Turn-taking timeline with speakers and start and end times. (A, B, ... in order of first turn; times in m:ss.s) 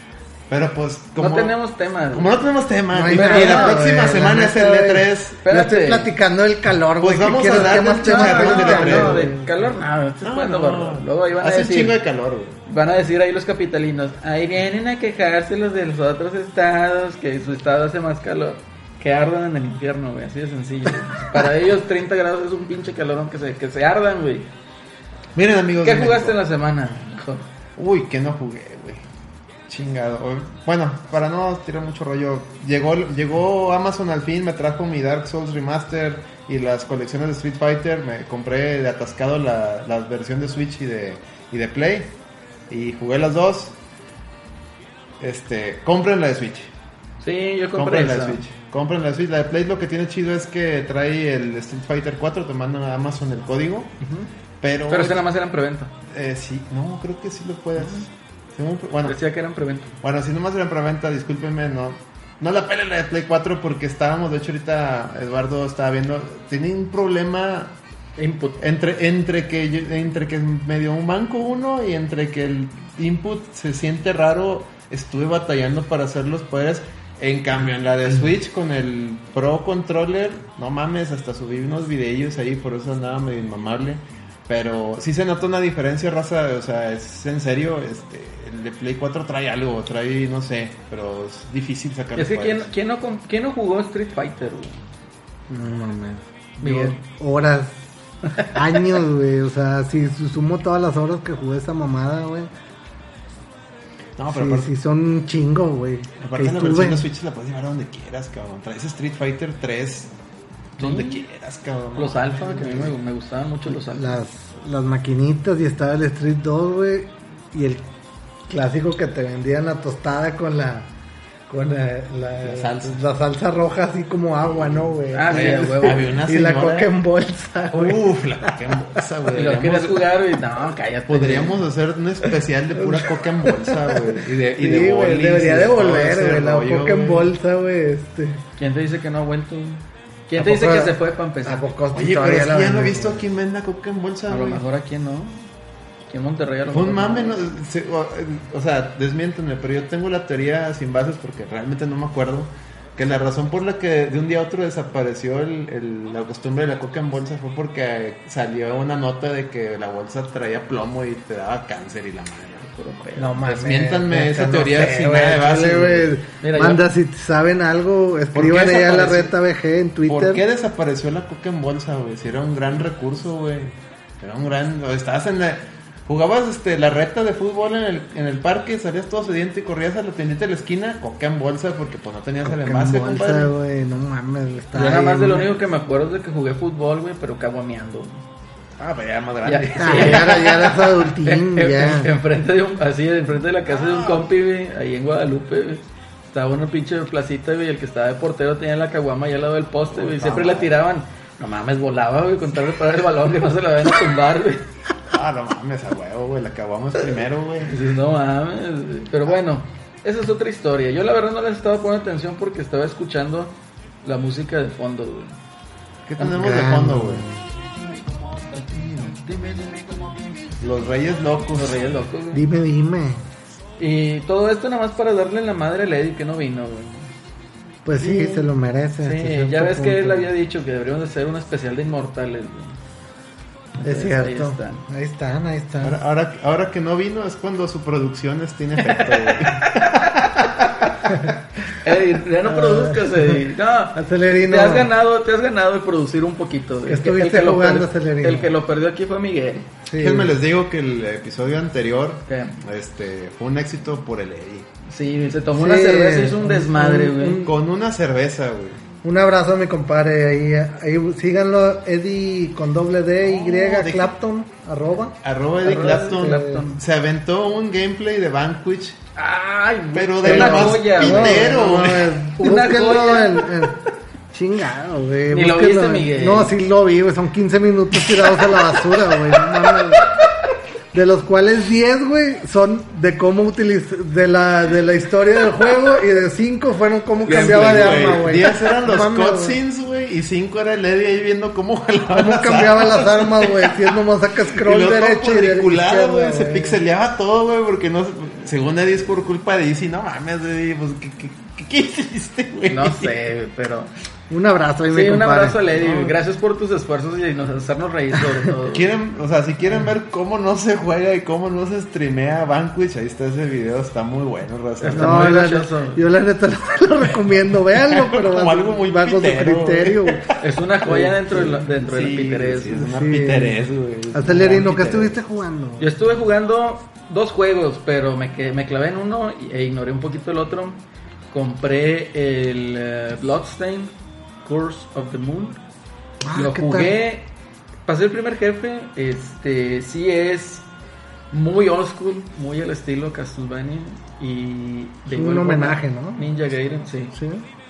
0:00.5-0:01.5 A
0:01.2-0:02.4 B
0:02.1-0:05.4 A
0:02.9-0:09.5 C
0:03.1-0:03.8 B
0:05.4-0:06.1 B
0:07.0-0:09.3 A
0:07.7-0:12.0 B
0:10.2-0:12.6 A
0:12.6-0:24.5 B
0:25.4-0:26.4 A
0:25.8-0:27.5 B
0:27.8-0:29.0 A
0:29.7-0:42.1 A
0:42.7-0:43.7 A
0:45.2-0:46.7 A
0:47.2-0:48.4 B
0:47.8-0:53.9 A
0:54.0-0:54.3 B
0:54.6-0:55.2 A
0:54.9-0:55.9 B
0:56.1-0:59.2 A
0:59.0-0:59.9 B
1:00.0-1:07.8 A
1:08.2-1:08.6 B
1:08.6-1:32.7 A
1:32.2-1:34.8 B
1:35.5-1:37.8 C
1:36.6-1:37.0 B
1:38.4-1:42.5 C
1:44.2-1:44.7 A
1:44.3-1:47.0 C
1:46.2-1:50.1 A
1:50.8-1:52.9 A
1:50.8-1:51.2 B
1:52.0-1:54.2 B
1:53.9-1:57.8 C
1:58.5-2:00.9 C
2:01.5-2:08.8 C
2:02.4-2:03.0 A
2:04.5-2:06.9 A
2:05.1-2:06.1 B
2:07.7-2:10.1 A
2:09.3-2:11.6 B
2:11.1-2:17.3 A
2:12.8-2:18.4 C
2:18.6-2:21.7 B
2:20.4-2:23.2 C
2:21.9-2:24.6 A
2:24.3-2:25.4 B
2:26.1-2:27.5 B
2:26.7-2:42.6 A
2:42.7-2:43.4 B
2:43.2-2:50.4 C
2:43.4-2:46.2 A
2:46.4-2:46.8 B
2:48.3-2:49.3 A
2:50.1-3:03.5 A
3:02.4-3:05.5 C
3:04.7-3:08.2 B
3:08.8-3:10.8 A
3:09.4-3:24.7 B
3:09.8-3:12.1 C
3:13.7-3:14.2 A
3:19.9-3:20.7 A
3:25.1-3:27.8 A
3:27.7-3:35.4 B
3:36.1-3:37.3 A
3:36.2-3:37.4 C
3:38.5-3:40.0 B
3:40.6-3:41.8 A
3:41.5-3:42.4 B
3:42.3-3:43.2 C
3:43.8-3:47.1 B
3:47.8-3:50.3 C
3:48.0-3:48.4 B
3:49.0-3:52.8 B
3:53.8-3:54.8 B
3:53.8-3:56.0 C
3:55.8-4:01.2 A
3:58.9-4:00.1 B
4:01.8-4:09.7 B
4:02.5-4:03.4 C
4:03.9-4:04.9 C
4:06.9-4:08.5 C
4:09.9-4:10.4 C
4:10.0-4:14.7 A
4:12.3-4:12.6 B
4:14.9-4:17.5 B
4:15.5-4:17.5 C
4:17.4-4:18.8 A
4:19.0-4:25.2 C
4:23.2-4:24.1 A
4:25.2-4:29.0 A
4:25.6-4:26.8 B
4:25.9-4:26.6 C
4:29.2-4:31.7 B
4:29.9-4:32.2 A
4:30.2-4:33.8 C
4:32.4-4:33.7 B
4:34.3-4:40.0 C
4:35.3-4:36.5 B
4:40.9-4:49.6 C
4:47.3-4:48.1 B
4:47.3-4:54.0 A
4:52.1-4:56.8 C
4:54.5-5:03.1 A
5:02.7-5:03.9 B
5:04.3-5:05.6 C
5:04.9-5:08.9 B
5:05.8-5:06.2 A
5:08.7-5:15.4 A
5:14.8-5:16.0 B
5:14.9-5:20.2 C
5:17.8-5:25.2 A
5:20.4-5:22.8 B
5:22.7-5:23.6 C
5:24.1-5:25.9 C
5:25.8-5:30.8 B
5:31.3-5:35.6 B
5:36.2-5:37.0 C
5:36.3-5:37.3 B
5:37.9-5:40.6 B
5:41.3-5:47.1 B
5:45.1-5:46.3 C
5:47.1-5:47.5 C